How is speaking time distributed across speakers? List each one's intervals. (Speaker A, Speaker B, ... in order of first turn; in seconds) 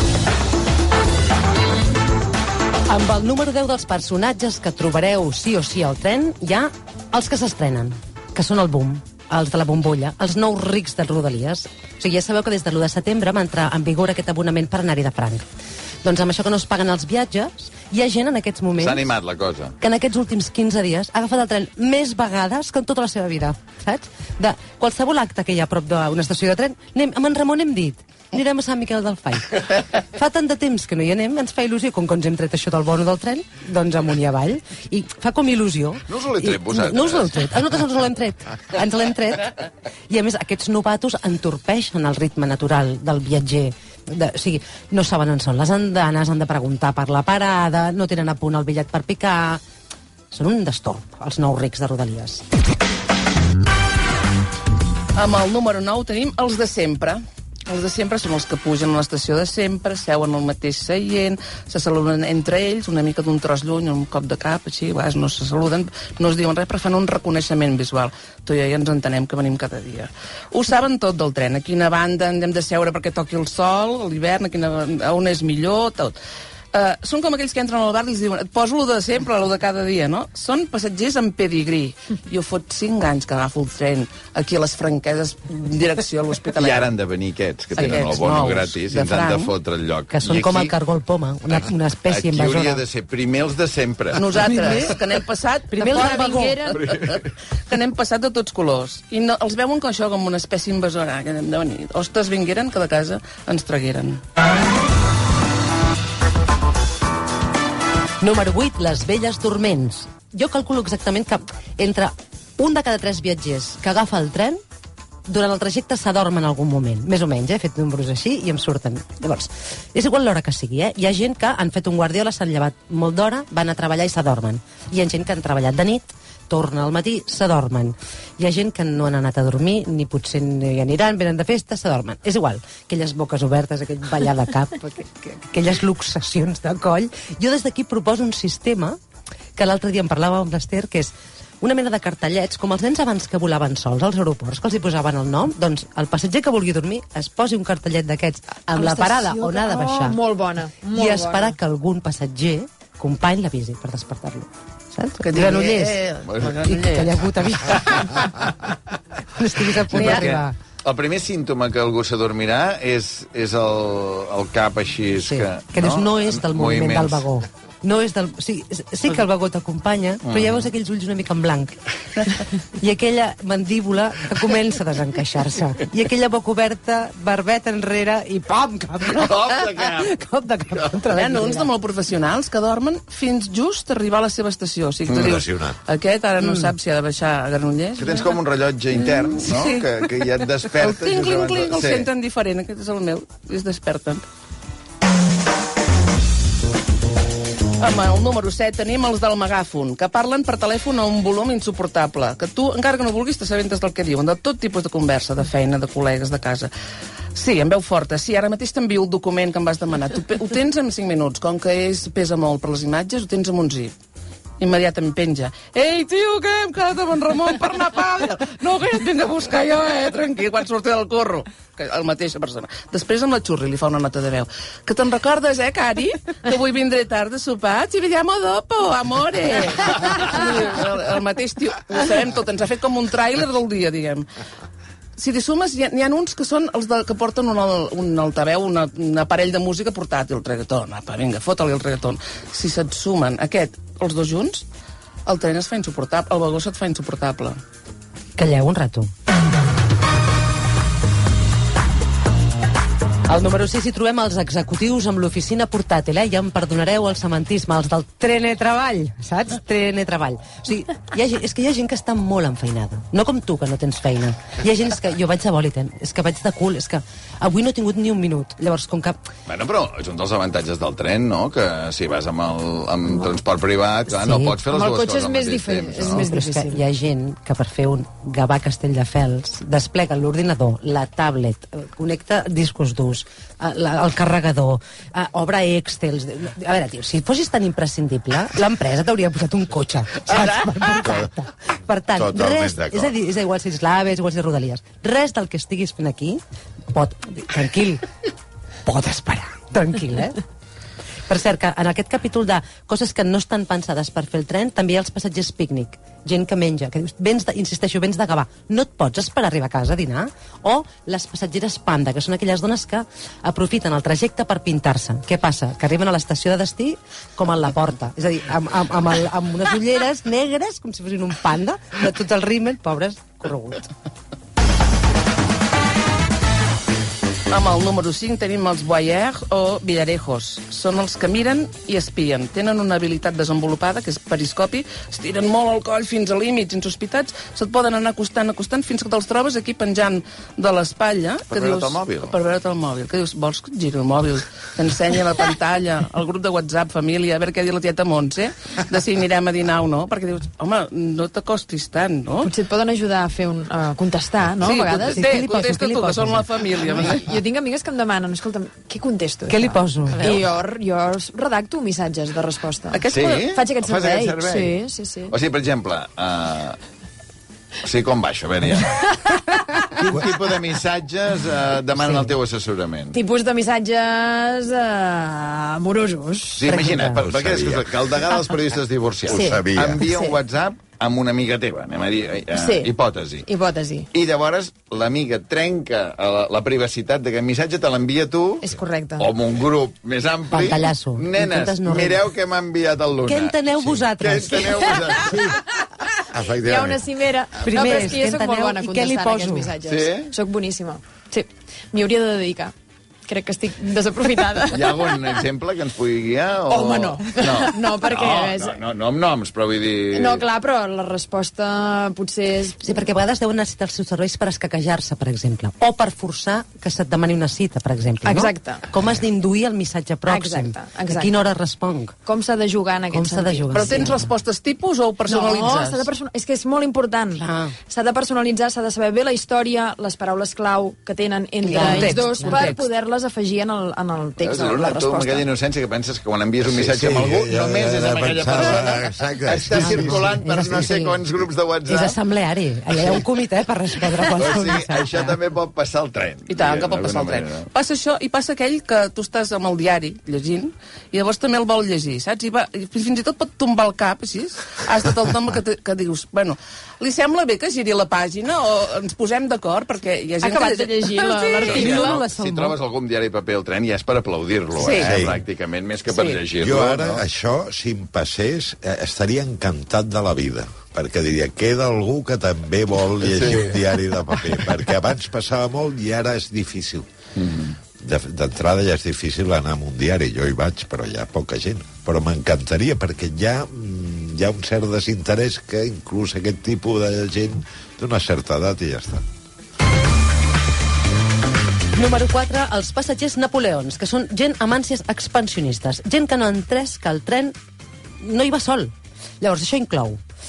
Speaker A: 2.9-15.4, 16.0-19.1, 19.8-49.6, 50.3-52.4, 87.8-88.8, 90.1-92.8, 94.5-94.8, 95.7-96.6, 108.2-114.6, 115.3-139.0, 139.6-150.2, 150.9-156.0, 156.5-158.5, 159.3-160.6, 165.2-181.7, 186.4-186.7, 248.3-249.1, 253.3-269.2, 274.1-274.6, 276.2-296.4, 296.9-298.1, 298.8-300.4, 301.3-323.9, 355.0-356.4, 359.5-360.4, 376.7-377.2, 390.5-392.2, 393.2-394.7, 397.6-399.7, 412.8-422.1, 423.1-424.3, 427.3-427.7, 431.6-432.8, 439.8-441.2, 441.9-445.4, 461.8-462.8, 491.9-497.5, 498.2-500.2
Speaker B: 18.8-19.7, 36.1-37.5, 86.6-90.7, 92.1-94.4, 96.9-97.1, 156.2-156.8, 159.9-167.2, 170.3-170.7, 179.2-180.1, 188.0-192.1, 269.5-276.3, 341.5-342.3, 363.1-364.8, 365.3-366.8, 367.8-369.1, 370.0-373.2, 376.6-383.4, 384.1-395.5, 396.3-397.0, 399.8-400.3, 404.7-410.4, 434.4-442.2, 442.9-443.2, 444.3-447.6, 461.6-467.2, 473.2-473.8, 477.4-477.7
Speaker C: 55.1-76.2, 76.7-86.9, 87.7-89.5, 94.1-104.2, 155.2-157.1, 181.1-188.3, 189.0-190.2, 190.8-194.2, 197.8-206.7, 207.3-213.9, 214.6-234.3, 235.2-244.6, 245.2-247.6, 327.5-352.5, 354.6-357.3, 362.9-363.5, 423.7-426.1, 431.8-432.8, 446.5-462.2, 464.8-465.3, 466.1-466.4
Speaker D: 95.8-96.9, 148.7-151.5, 274.6-276.8, 352.4-355.4, 356.9-365.4, 368.9-370.1, 373.1-376.9, 379.3-380.4, 382.5-382.9, 383.4-384.1, 388.6-389.4, 394.5-395.4, 396.5-402.7, 403.3-405.5, 406.7-408.8, 410.1-412.8, 418.2-418.9, 420.3-421.4, 422.2-424.1, 425.3-435.5, 460.4-462.2
Speaker E: 185.1-185.8, 291.0-291.3, 292.1-293.1, 377.2-378.2, 379.3-380.0, 395.3-395.5, 436.6-440.7, 465.0-465.4, 466.6-477.1, 478.0-489.2